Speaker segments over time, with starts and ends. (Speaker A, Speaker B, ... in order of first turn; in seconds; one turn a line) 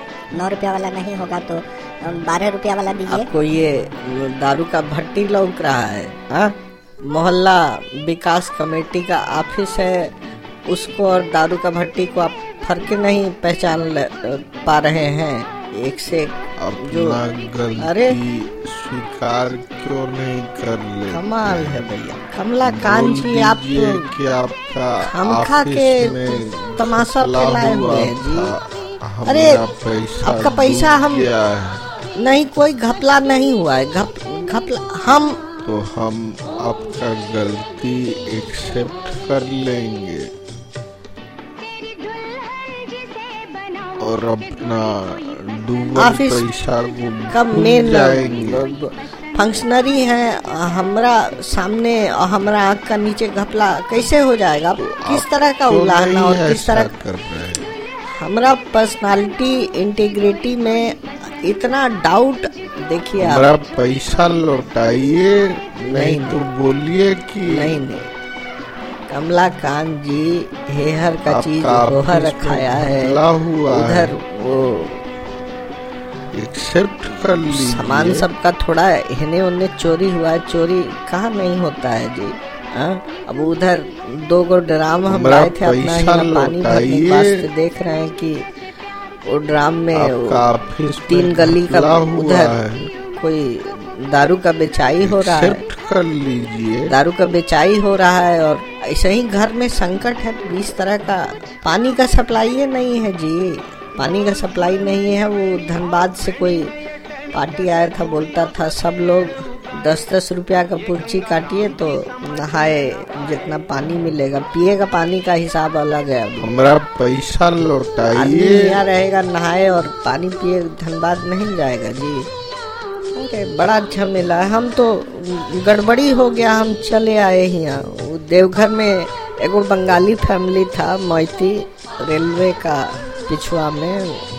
Speaker A: 0.3-3.3
Speaker B: 3.1-10.1
Speaker B: 10.7-17.2
Speaker C: 16.6-21.8
Speaker B: 17.8-18.2
Speaker B: 21.1-24.1
Speaker C: 22.6-31.8
Speaker B: 25.0-28.5
Speaker B: 29.2-29.6
Speaker B: 30.2-31.3
Speaker B: 32.2-35.4
Speaker C: 35.6-40.3
Speaker C: 44.0-48.6
Speaker B: 45.9-46.5
Speaker B: 47.3-57.0
Speaker C: 54.8-57.7
Speaker B: 58.1-63.5
Speaker C: 63.2-67.8
Speaker B: 65.8-66.5
Speaker B: 67.4-68.1
Speaker B: 69.1-75.0
Speaker C: 71.2-74.2
Speaker C: 76.3-78.3
Speaker B: 77.5-88.5
Speaker C: 85.0-87.5
Speaker B: 89.2-90.5
Speaker C: 89.9-92.8
Speaker B: 91.1-95.6
Speaker C: 95.0-96.9
Speaker B: 96.9-106.7
Speaker B: 107.3-116.5
Speaker C: 116.4-118.8
Speaker B: 118.1-122.3
Speaker B: 123.1-134.2